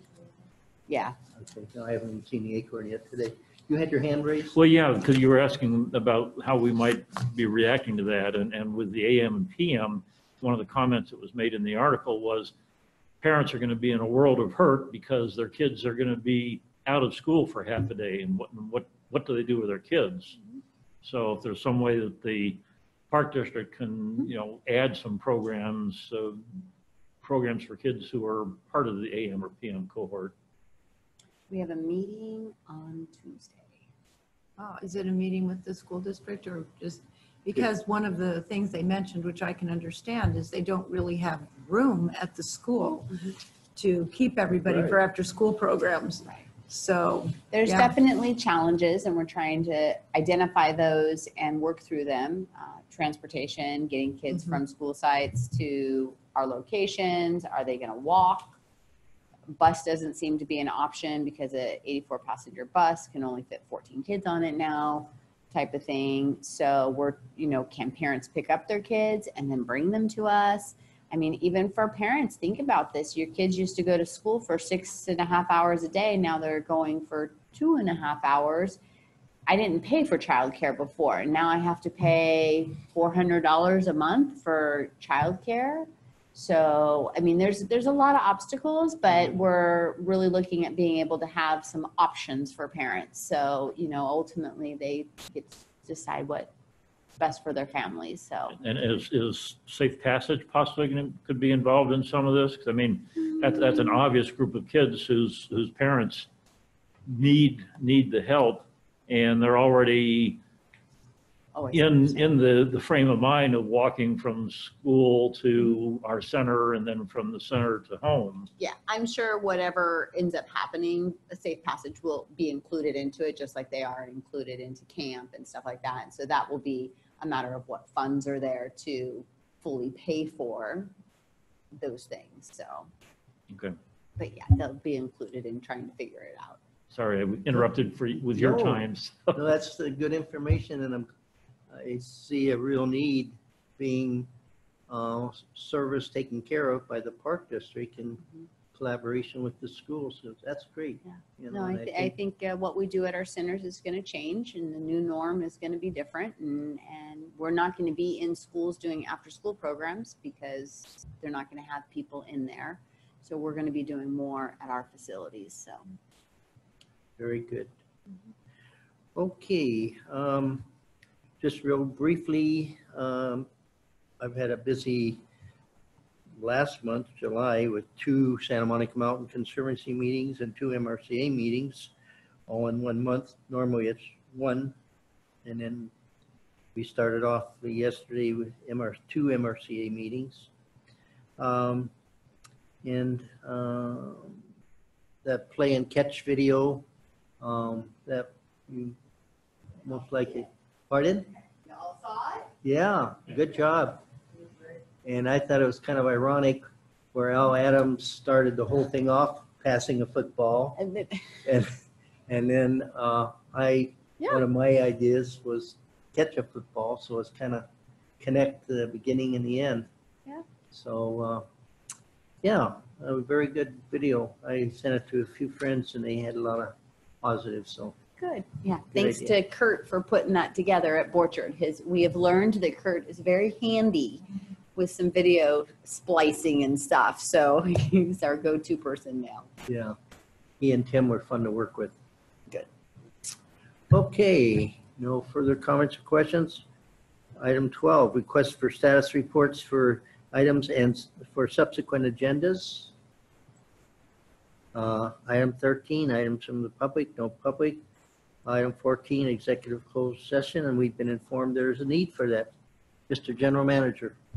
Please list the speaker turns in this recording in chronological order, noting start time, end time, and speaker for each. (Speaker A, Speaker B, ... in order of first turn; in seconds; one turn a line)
Speaker A: 0.9-1.2
Speaker B: 1.3-4.6
Speaker C: 4.5-12.5
Speaker C: 13.2-20.4
Speaker C: 21.0-26.6
Speaker C: 27.2-30.3
Speaker A: 31.5-33.8
Speaker D: 34.6-43.2
Speaker D: 43.7-47.9
Speaker B: 44.6-45.0
Speaker A: 47.5-58.6
Speaker A: 59.5-78.8
Speaker A: 79.5-96.5
Speaker A: 97.2-98.5
Speaker C: 98.5-106.3
Speaker C: 107.1-110.4
Speaker A: 111.5-112.3
Speaker C: 111.7-118.5
Speaker A: 118.6-130.9
Speaker A: 131.7-132.9
Speaker C: 133.5-133.8
Speaker A: 134.2-136.6
Speaker C: 136.9-139.4
Speaker B: 138.3-141.1
Speaker B: 141.7-144.3
Speaker B: 144.9-152.1
Speaker A: 151.1-165.9
Speaker B: 167.2-167.7
Speaker B: 169.1-170.7
Speaker B: 171.4-173.5
Speaker B: 174.2-175.2
Speaker B: 176.4-181.9
Speaker B: 182.5-184.8
Speaker B: 185.4-185.9
Speaker B: 186.7-190.5
Speaker B: 191.4-191.9
Speaker B: 192.8-194.4
Speaker B: 195.2-196.8
Speaker B: 197.4-199.0
Speaker B: 199.8-201.3
Speaker A: 201.6-202.5
Speaker B: 202.6-204.0
Speaker B: 205.0-210.8
Speaker A: 210.8-211.4
Speaker B: 211.4-217.7
Speaker B: 218.2-219.9
Speaker B: 220.7-221.4
Speaker B: 222.4-227.9
Speaker A: 228.2-239.5
Speaker B: 228.9-229.3
Speaker B: 239.7-240.0
Speaker B: 240.6-241.9
Speaker B: 243.9-246.6
Speaker B: 247.4-252.9
Speaker B: 254.7-257.8
Speaker B: 258.4-262.5
Speaker B: 263.1-264.1